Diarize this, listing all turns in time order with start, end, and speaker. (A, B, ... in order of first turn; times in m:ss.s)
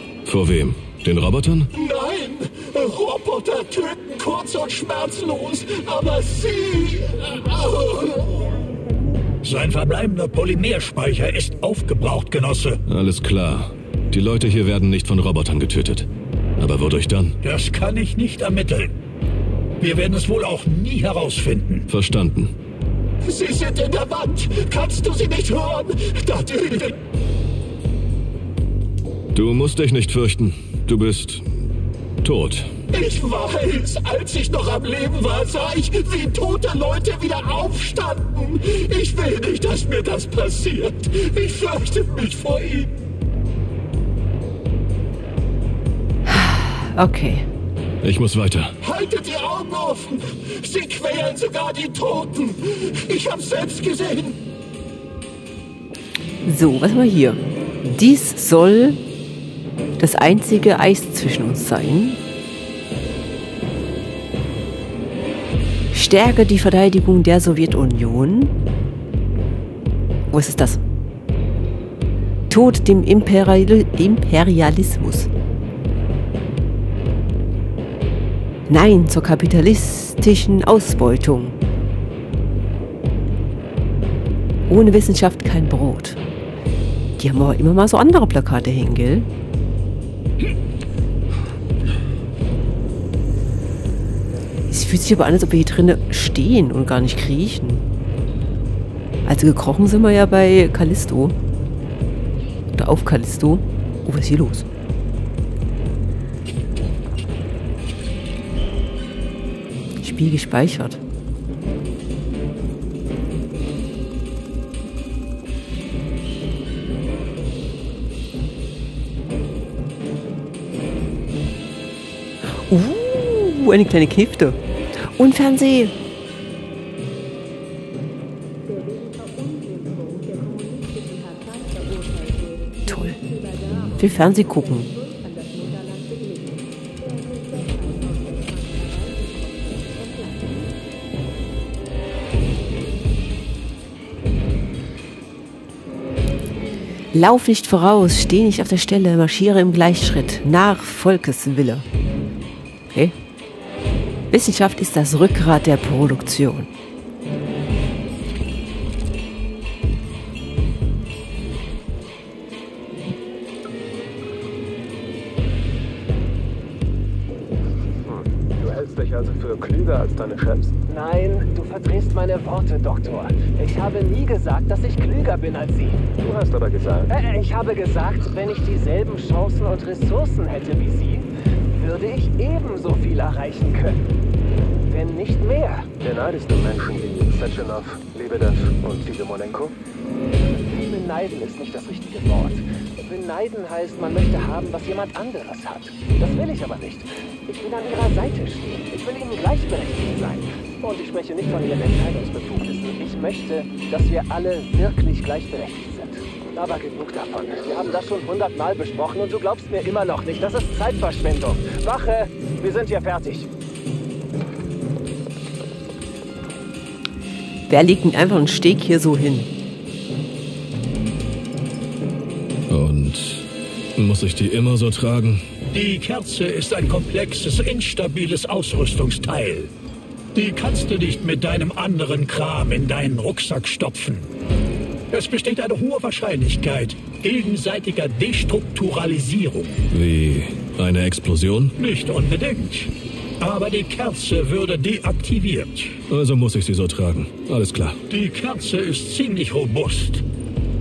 0:00.2-0:01.7 A
0:01.7-0:08.6 B
0:09.4-0:12.8 B
0:12.9-0:17.4 A
0:17.4-0:18.9 B
0:19.8-0:21.9 B
0:21.9-0:22.5 A
0:23.2-0:27.0 B
0:29.3-0:31.5 A
0:32.2-0:32.7 A
0:32.9-0:42.9 B
0:46.3-0:47.5 C
0:48.0-0:48.7 A
0:48.8-0:54.4 B
0:56.4-0:59.0 C
1:00.0-1:02.2 C
1:05.9-1:08.5 C
1:10.3-1:10.8 C
1:12.5-1:15.3 C
1:18.7-1:21.6 C
1:24.7-1:26.2 C
1:27.2-1:29.3 C
1:34.7-1:37.8 C
1:39.3-1:41.4 C
1:42.8-1:44.7 C
1:50.0-1:51.0 C
2:02.6-2:05.9 C
2:12.9-2:13.2 C
2:13.9-2:14.9 C
2:27.1-2:31.9 C
2:34.3-2:36.7 C
2:48.1-2:50.7 D
2:50.9-2:56.1 E
2:56.2-2:57.1 D
2:57.1-3:01.3 E
3:01.8-3:04.0 E
3:04.9-3:05.9 E
3:06.0-3:09.7 D
3:10.7-3:33.5 E
3:37.7-3:39.5 C
3:42.7-3:45.4 A
3:45.7-3:49.7 B
3:50.4-3:54.3 B
3:55.1-3:59.8 B
3:59.9-4:01.7 A
4:01.8-4:06.0 B
4:06.1-4:08.0 A
4:08.1-4:10.2 B